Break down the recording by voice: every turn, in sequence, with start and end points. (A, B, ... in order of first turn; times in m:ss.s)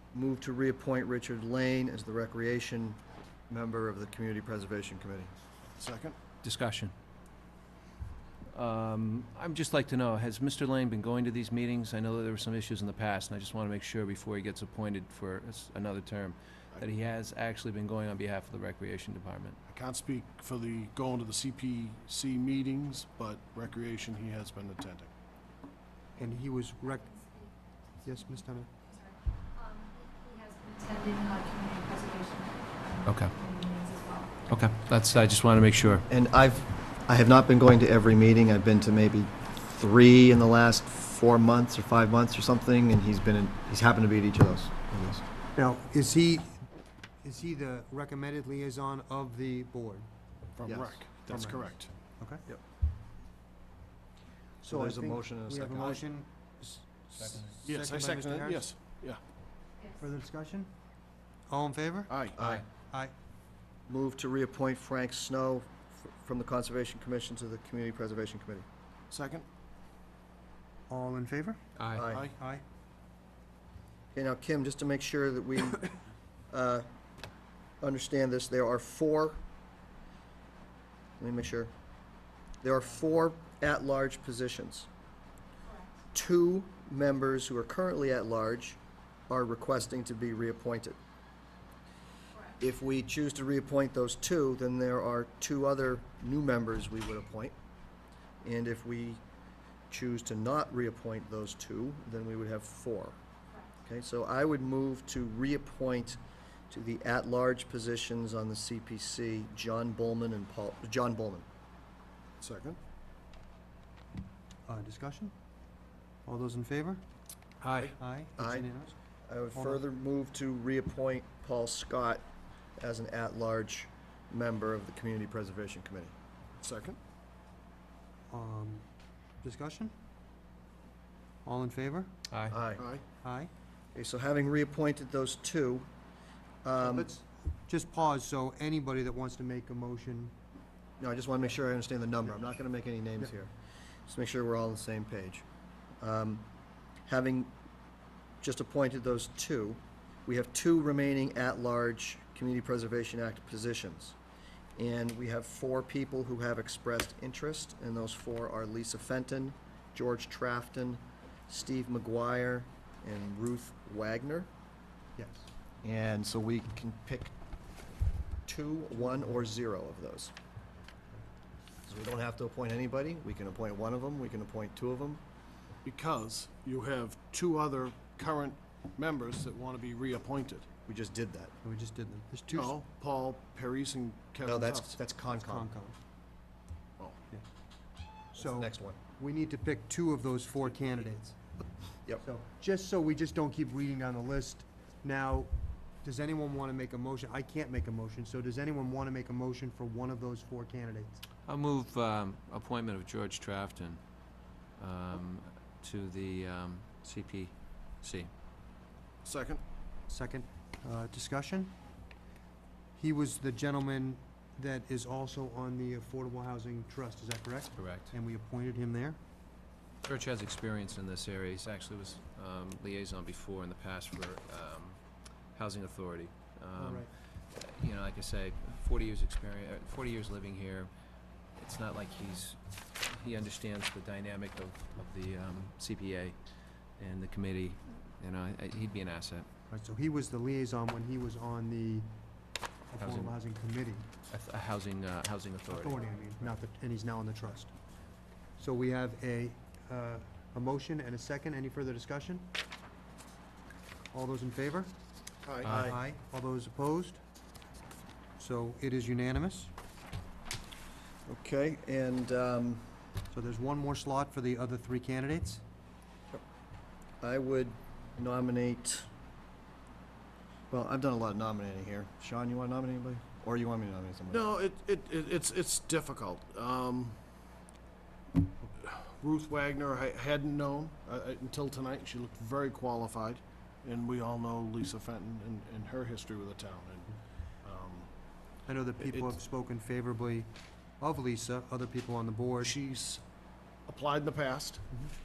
0:00.1-0:05.3 A
0:05.8-0:06.2 B
0:06.4-0:06.9 C
0:08.5-0:19.6 C
0:19.7-0:25.1 B
0:26.2-0:27.3 D
0:26.9-0:28.2 E
0:28.0-0:28.7 D
0:28.8-0:34.4 E
0:33.0-0:33.3 C
0:34.5-0:36.0 C
0:36.1-0:45.2 A
0:45.6-0:46.6 D
0:47.2-0:50.1 D
0:50.6-0:51.9 B
0:50.6-0:51.0 A
0:51.3-0:51.6 D
0:52.2-0:52.4 D
0:54.6-0:58.6 D
0:54.7-0:56.0 A
0:57.2-0:57.5 C
0:57.6-0:59.2 B
1:00.0-1:00.7 D
1:01.5-1:02.1 D
1:02.1-1:02.6 B
1:02.4-1:02.6 C
1:03.9-1:08.6 A
1:09.1-1:09.4 B
1:10.9-1:11.6 D
1:11.8-1:12.1 C
1:11.9-1:12.3 A
1:12.1-1:12.4 B
1:12.3-1:12.6 D
1:14.1-1:15.9 A
1:16.5-1:16.8 A
1:17.8-1:19.4 A
1:21.2-1:21.7 A
1:22.6-1:24.9 A
1:25.6-1:25.9 E
1:26.1-1:31.0 A
1:32.6-1:37.5 A
1:38.4-1:39.2 A
1:39.9-1:43.2 A
1:43.8-1:46.2 A
1:46.7-1:51.4 A
1:52.4-1:52.8 B
1:54.7-1:55.3 D
1:56.2-1:57.0 D
1:57.6-1:58.0 C
1:58.0-1:59.0 D
1:58.4-1:58.7 A
1:59.3-2:02.2 A
1:59.5-1:59.8 D
2:02.8-2:06.1 A
2:06.6-2:07.0 B
2:08.3-2:08.8 D
2:09.4-2:09.9 D
2:11.4-2:12.1 D
2:12.3-2:12.6 C
2:12.5-2:12.8 A
2:12.8-2:13.0 B
2:13.2-2:13.5 D
2:13.9-2:15.9 A
2:16.6-2:17.1 A
2:16.8-2:20.3 D
2:21.0-2:23.5 A
2:24.1-2:25.4 A
2:26.0-2:26.4 A
2:27.1-2:27.5 A
2:28.4-2:34.2 A
2:34.8-2:44.5 A
2:45.2-2:45.5 D
2:45.8-2:47.3 A
2:48.4-2:50.3 A
2:51.8-2:55.2 A
2:55.8-3:00.7 B
3:00.9-3:01.5 A
3:01.6-3:02.7 D
3:02.5-3:05.0 B
3:04.4-3:05.7 A
3:05.3-3:06.0 D
3:08.3-3:09.0 A
3:08.3-3:11.4 D
3:12.2-3:15.5 D
3:16.0-3:21.2 D
3:21.5-3:24.0 C
3:24.8-3:28.3 C
3:29.2-3:29.6 B
3:30.1-3:31.8 D
3:33.0-3:39.2 D
3:37.8-3:38.1 C
3:40.0-3:45.0 C
3:45.5-3:50.9 C
3:46.8-3:47.1 D
3:51.6-3:56.4 C
3:57.0-3:59.5 C
3:59.7-4:02.1 D
4:02.9-4:04.1 D
4:03.0-4:03.4 C
4:04.3-4:06.0 C
4:05.7-4:07.7 D
4:08.6-4:12.5 D
4:14.1-4:14.9 D
4:15.4-4:15.8 B
4:15.7-4:16.0 A
4:15.7-4:17.2 D
4:18.4-4:19.7 D
4:21.3-4:22.8 A
4:23.3-4:25.6 D
4:27.2-4:29.1 A
4:30.7-4:34.5 A
4:34.3-4:37.2 B
4:38.8-4:48.1 B
4:48.6-4:52.8 D
4:49.0-4:49.4 B
4:52.6-4:53.2 B
4:53.9-4:54.9 B